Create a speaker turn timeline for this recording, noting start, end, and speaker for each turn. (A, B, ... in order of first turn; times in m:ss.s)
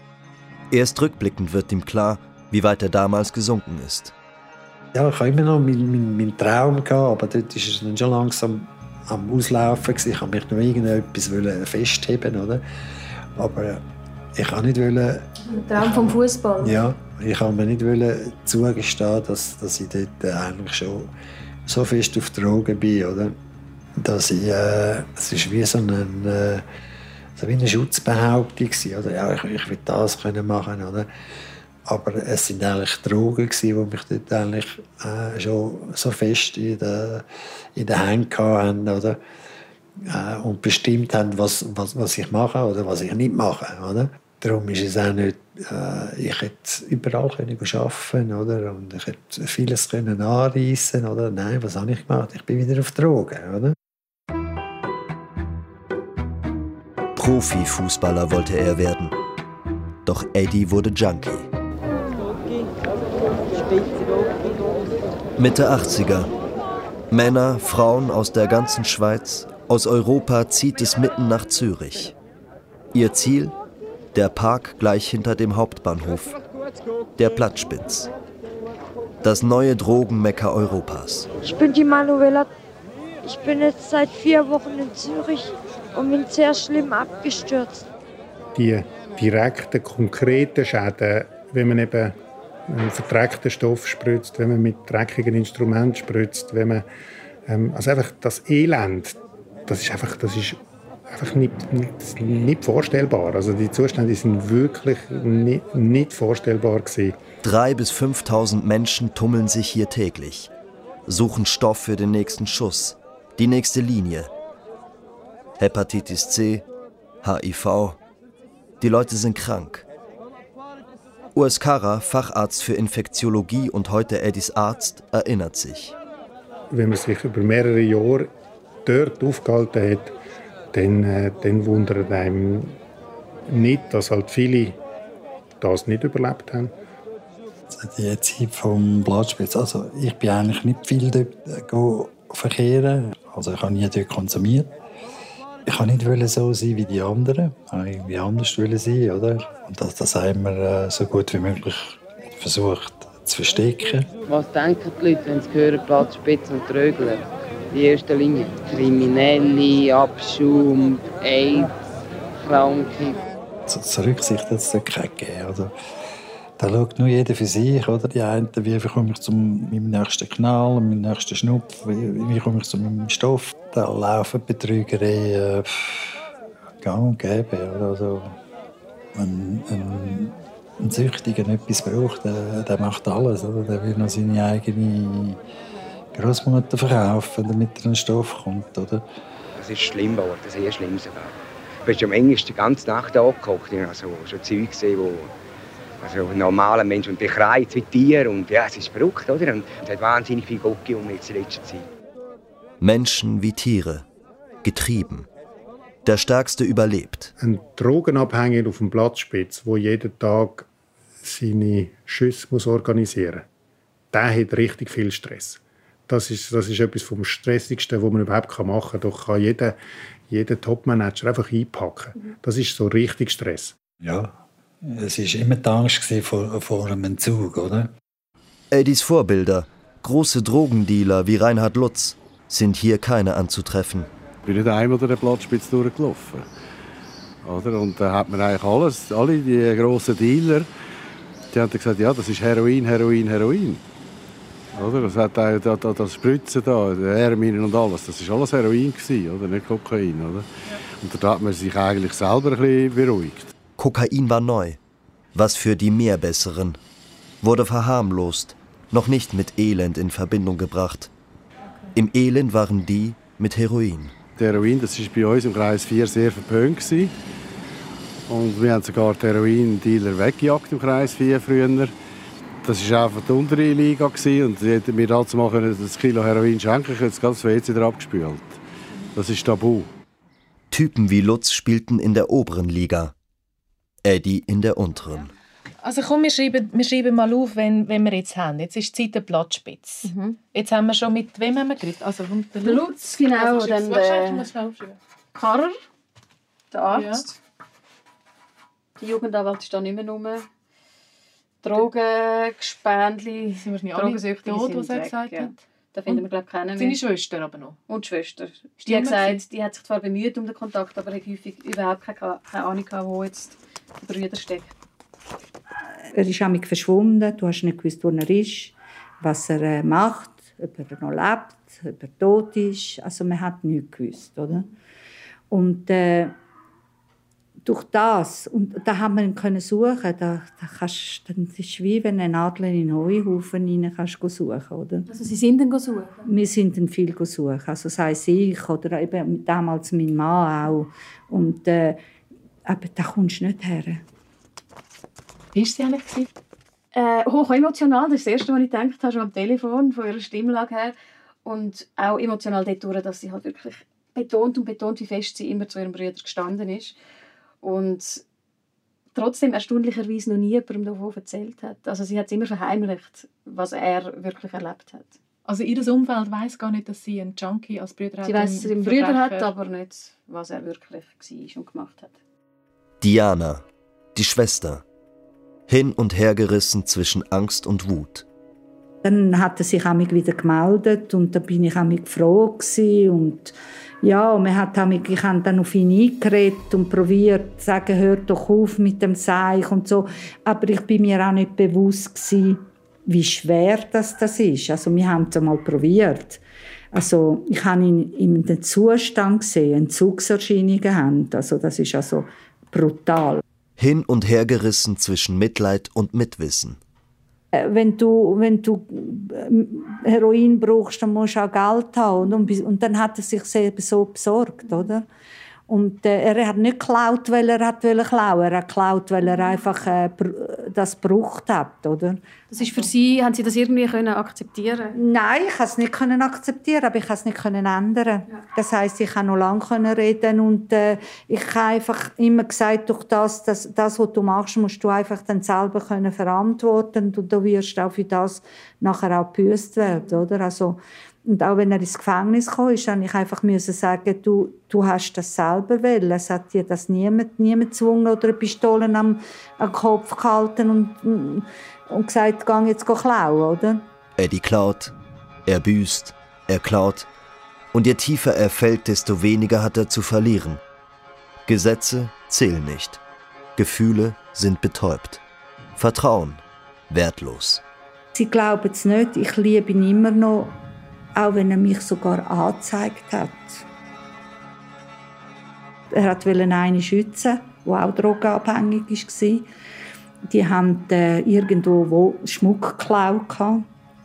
0:00.7-0:04.1 A
0:04.9-0:12.6 B
0:13.4-0:13.8 B
0:14.3-0:21.1 B
0:15.5-0:16.8 C
0:21.7-0:23.4 B
0:24.0-0:26.6 B
0:27.4-0:31.1 B
0:31.9-0:39.2 B
0:40.0-0:53.8 B
0:57.2-0:59.2 A
1:00.1-1:01.5 A
1:05.4-1:06.3 A
1:07.1-1:12.2 A
1:12.9-1:13.6 A
1:14.1-1:16.4 A
1:17.2-1:18.1 A
1:19.2-1:21.3 A
1:21.4-1:22.5 D
1:23.2-1:27.8 D
1:28.6-1:32.2 E
1:32.7-1:36.8 E
1:37.5-1:47.2 E
1:47.4-1:50.5 A
1:51.1-1:54.3 A
1:55.6-1:56.7 A
1:57.2-1:58.0 A
1:58.8-1:59.8 A
2:01.4-2:05.9 A
2:06.7-2:08.3 E
2:08.9-2:10.2 E
2:10.7-2:12.8 E
2:13.5-2:14.8 E
2:15.6-2:16.7 E
2:17.7-2:24.7 B
2:25.7-2:34.1 B
2:34.3-2:41.7 F
2:42.4-2:43.3 F
2:43.7-2:45.7 B
2:46.6-2:56.3 B
2:56.8-2:58.4 B
2:59.1-3:05.4 B
3:06.1-3:09.0 B
3:09.6-3:15.3 G
3:16.0-3:21.9 G
3:22.8-3:24.0 A
3:24.6-3:25.3 A
3:26.0-3:27.3 A
3:27.4-3:30.7 E
3:31.2-3:33.4 E
3:34.1-3:39.8 E
3:40.3-3:43.7 E
3:44.0-3:47.9 B
3:48.7-3:54.1 A
3:54.5-3:56.5 H
3:57.4-4:00.7 H
4:01.5-4:03.8 H
4:04.8-4:10.5 H
4:11.0-4:13.5 H
4:13.8-4:14.8 A
4:15.3-4:16.8 A
4:17.4-4:21.1 A
4:22.0-4:24.2 A
4:24.4-4:27.1 H
4:28.3-4:31.9 H
4:32.6-4:38.6 H
4:39.2-4:39.9 H
4:40.7-4:43.1 A
4:44.0-4:45.3 A
4:45.8-4:55.0 I
4:50.0-4:50.4 C
4:52.6-4:54.5 C
4:55.4-4:55.8 C
4:56.7-4:57.4 C
4:56.9-4:57.2 I
4:59.0-5:00.5 C
5:01.6-5:07.0 C
5:03.6-5:07.8 I
5:07.9-5:14.7 C
5:08.8-5:09.4 I
5:16.1-5:24.7 J
5:25.5-5:26.4 J
5:27.6-5:35.1 J
5:35.1-5:36.2 C
5:36.2-5:42.0 J
5:42.7-5:44.0 J
5:45.6-5:46.3 I
5:47.0-5:57.0 C
5:57.6-5:58.2 C
5:59.1-6:05.2 C
6:05.4-6:09.5 I
6:08.2-6:12.2 C
6:13.0-6:13.6 A
6:14.2-6:14.8 A
6:15.7-6:18.2 A
6:19.0-6:36.4 J
6:36.9-6:43.4 J
6:43.8-6:46.8 A
6:47.5-6:55.1 J
6:55.7-7:02.2 J
7:02.5-7:05.0 C
7:05.0-7:33.8 J
7:34.2-7:34.9 A
7:35.5-7:37.1 A
7:37.7-7:40.6 A
7:41.5-7:43.0 A
7:43.6-7:45.2 A
7:45.8-7:47.6 A
7:48.2-7:50.6 J
7:51.2-7:53.6 J
7:55.9-7:59.5 J
8:00.3-8:03.6 J